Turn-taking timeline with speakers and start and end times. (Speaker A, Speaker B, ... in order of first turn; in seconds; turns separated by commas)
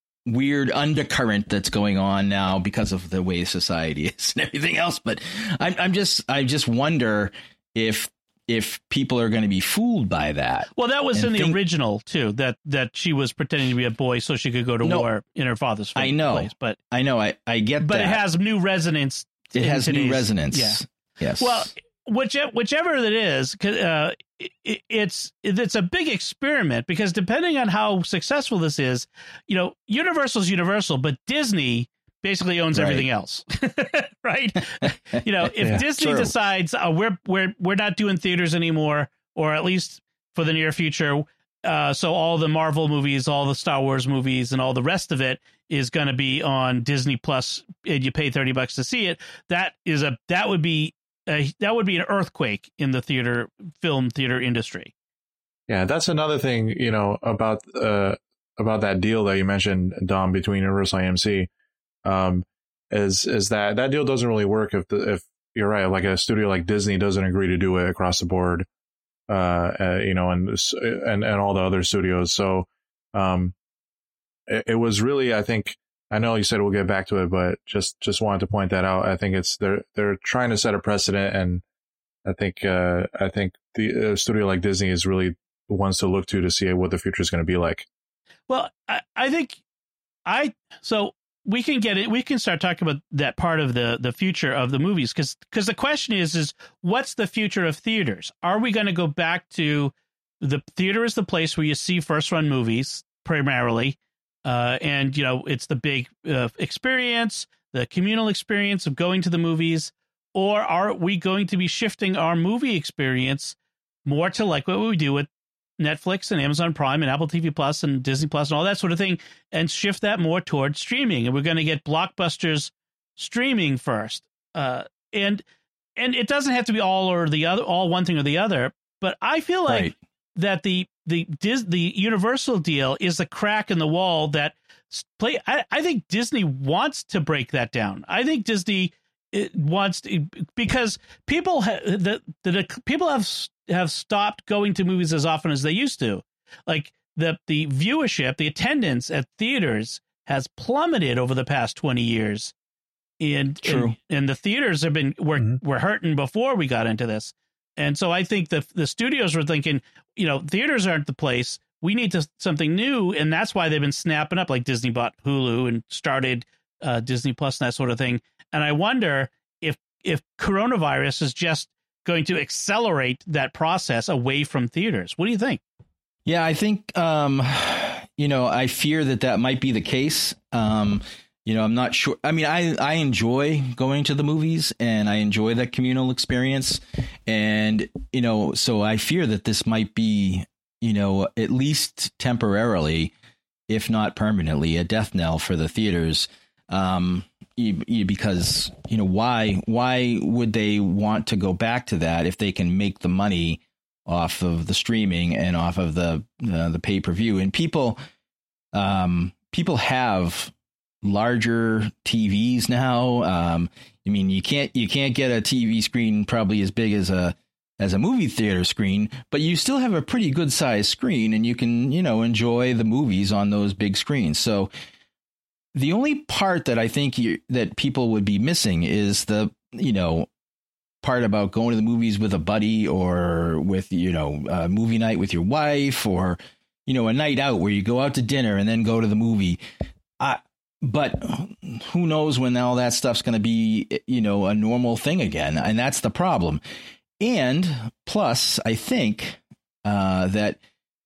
Speaker A: 0.3-11.6, Speaker B: 10.7-16.8, Speaker A: 14.8-15.1, Speaker A: 15.9-18.2, Speaker B: 17.8-20.8, Speaker A: 19.5-21.7, Speaker B: 21.4-54.9, Speaker A: 32.7-33.0, Speaker A: 35.4-36.3, Speaker C: 55.7-61.5, Speaker C: 62.0-68.7, Speaker C: 69.3-73.5, Speaker C: 74.5-81.6, Speaker C: 82.2-87.9, Speaker B: 88.5-89.6, Speaker B: 90.2-125.4, Speaker B: 126.0-152.5, Speaker A: 129.7-129.9, Speaker B: 153.2-175.6, Speaker A: 153.6-153.9, Speaker A: 176.2-193.1, Speaker A: 193.7-208.0, Speaker A: 208.7-224.7, Speaker A: 225.7-230.3, Speaker A: 231.0-239.6, Speaker A: 240.2-246.6, Speaker A: 247.2-250.6